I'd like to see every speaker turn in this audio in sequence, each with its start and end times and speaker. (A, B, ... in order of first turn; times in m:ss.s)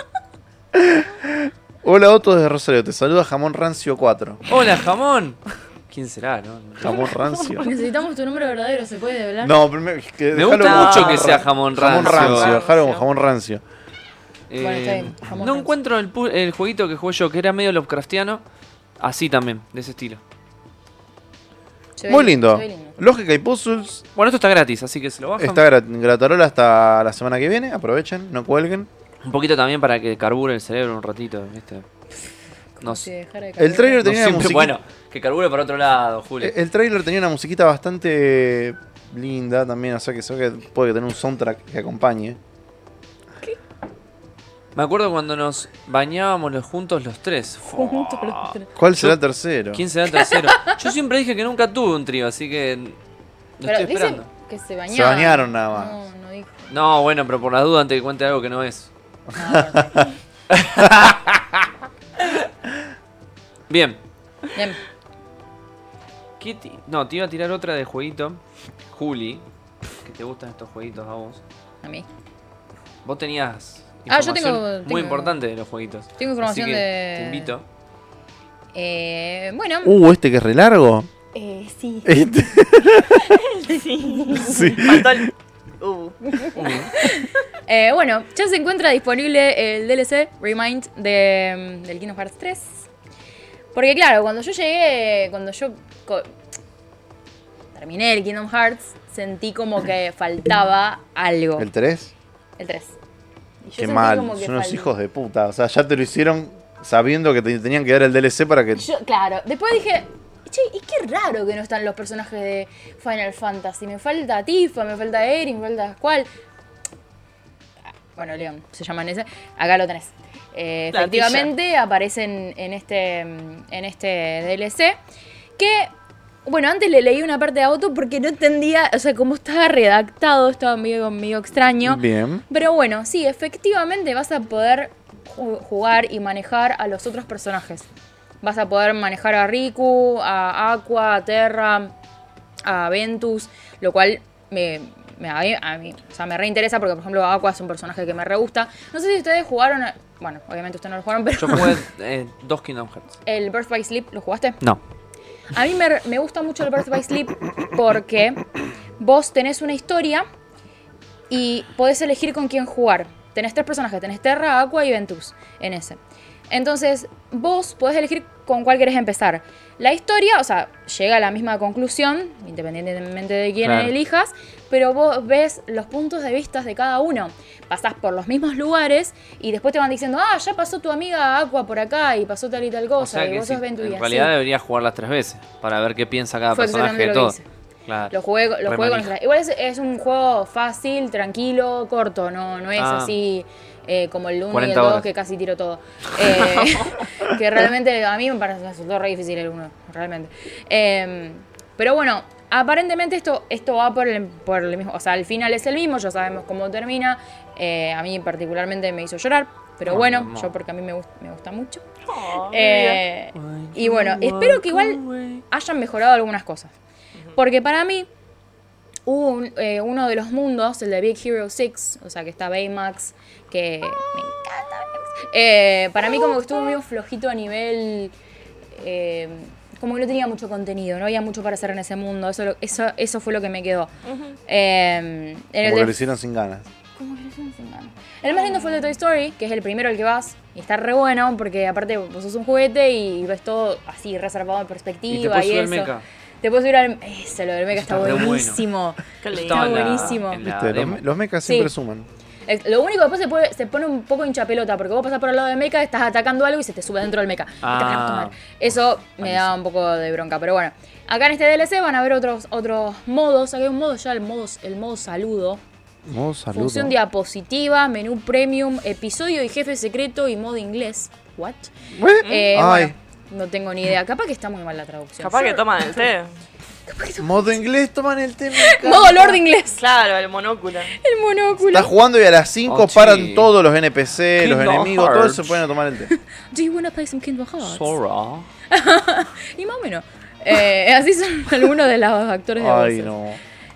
0:00.7-0:04.4 A
0:04.5-0:07.2 B
0:06.8-0:07.6 A
0:07.6-0:09.5 C
0:09.4-0:13.6 A
0:10.3-0:12.6 B
0:10.6-0:13.0 D
0:14.5-0:18.4 B
0:14.6-0:15.7 C
0:19.0-0:20.2 B
0:22.0-0:23.0 C
0:22.1-0:24.0 A
0:24.2-0:25.6 B
0:25.4-0:28.9 A
0:29.2-0:31.8 B
0:32.8-0:34.0 C
0:32.8-0:33.1 B
0:33.6-0:34.7 A
0:34.0-0:36.5 B
0:36.4-0:42.4 A
0:44.7-0:49.2 B
0:47.7-0:48.6 C
0:48.8-0:49.8 A
0:49.7-0:53.0 B
0:50.1-0:50.8 C
0:53.6-0:54.3 B
0:53.6-0:56.7 C
0:54.9-0:55.9 A
0:56.7-0:58.9 B
0:59.3-1:00.1 C
0:59.4-1:00.1 A
1:00.5-1:01.1 B
1:00.8-1:01.4 A
1:03.7-1:04.0 B
1:06.4-1:08.4 B
1:08.9-1:09.4 B
1:10.0-1:11.4 B
1:13.0-1:17.6 B
1:14.1-1:15.4 C
1:16.2-1:17.5 C
1:18.7-1:20.0 C
1:19.8-1:21.1 A
1:21.3-1:22.1 C
1:22.0-1:23.3 A
1:23.3-1:26.4 D
1:24.0-1:24.8 C
1:24.4-1:25.2 A
1:26.3-1:32.8 C
1:26.5-1:26.9 B
1:33.7-1:36.3 C
1:37.7-1:41.7 C
1:41.6-1:42.1 A
1:42.6-1:42.9 C
1:43.6-1:44.9 C
1:43.8-1:48.8 A
1:48.7-1:56.3 C
1:58.2-2:05.0 C
2:00.9-2:01.5 D
2:05.6-2:05.9 C
2:06.4-2:17.8 C
2:11.8-2:12.4 A
2:18.4-2:21.9 C
2:22.6-2:31.8 C
2:31.4-2:33.2 B
2:33.2-2:34.6 C
2:35.5-2:38.4 C
2:39.0-2:40.3 C
2:41.3-2:46.0 C
2:46.5-3:04.3 C
2:53.6-2:53.9 B
3:03.0-3:08.1 B
3:06.5-3:07.4 C
3:08.1-3:31.8 C
3:08.6-3:09.1 B
3:12.8-3:13.2 B
3:14.5-3:15.0 B
3:16.4-3:16.9 D
3:29.8-3:30.5 B
3:32.0-3:33.0 D
3:32.5-3:36.7 C
3:33.3-3:35.4 B
3:37.3-3:38.1 C
3:39.1-3:48.1 C
3:48.7-3:53.9 C
3:54.0-3:54.4 D
3:54.5-3:56.0 C
3:55.6-3:56.6 A
3:57.0-4:05.9 C
4:05.1-4:06.0 B
4:06.4-4:10.4 C
4:07.7-4:08.6 B
4:09.2-4:10.2 D
4:09.3-4:11.0 B
4:10.4-4:12.1 A
4:11.4-4:11.7 C
4:12.5-4:25.6 C
4:17.6-4:18.3 B
4:19.2-4:19.5 B
4:26.0-4:26.9 A
4:26.5-4:36.1 C
4:31.9-4:32.9 A
4:32.2-4:32.5 D
4:35.2-4:36.3 D
4:36.9-4:37.6 C
4:37.2-4:39.4 A
4:38.5-4:39.8 C
4:39.7-4:41.0 D
4:41.0-4:41.9 C
4:41.6-4:46.1 A
4:42.7-4:43.5 B
4:44.4-4:45.6 B
4:46.1-4:48.0 C
4:47.6-4:48.5 B
4:48.7-4:53.1 C
4:52.6-4:53.4 A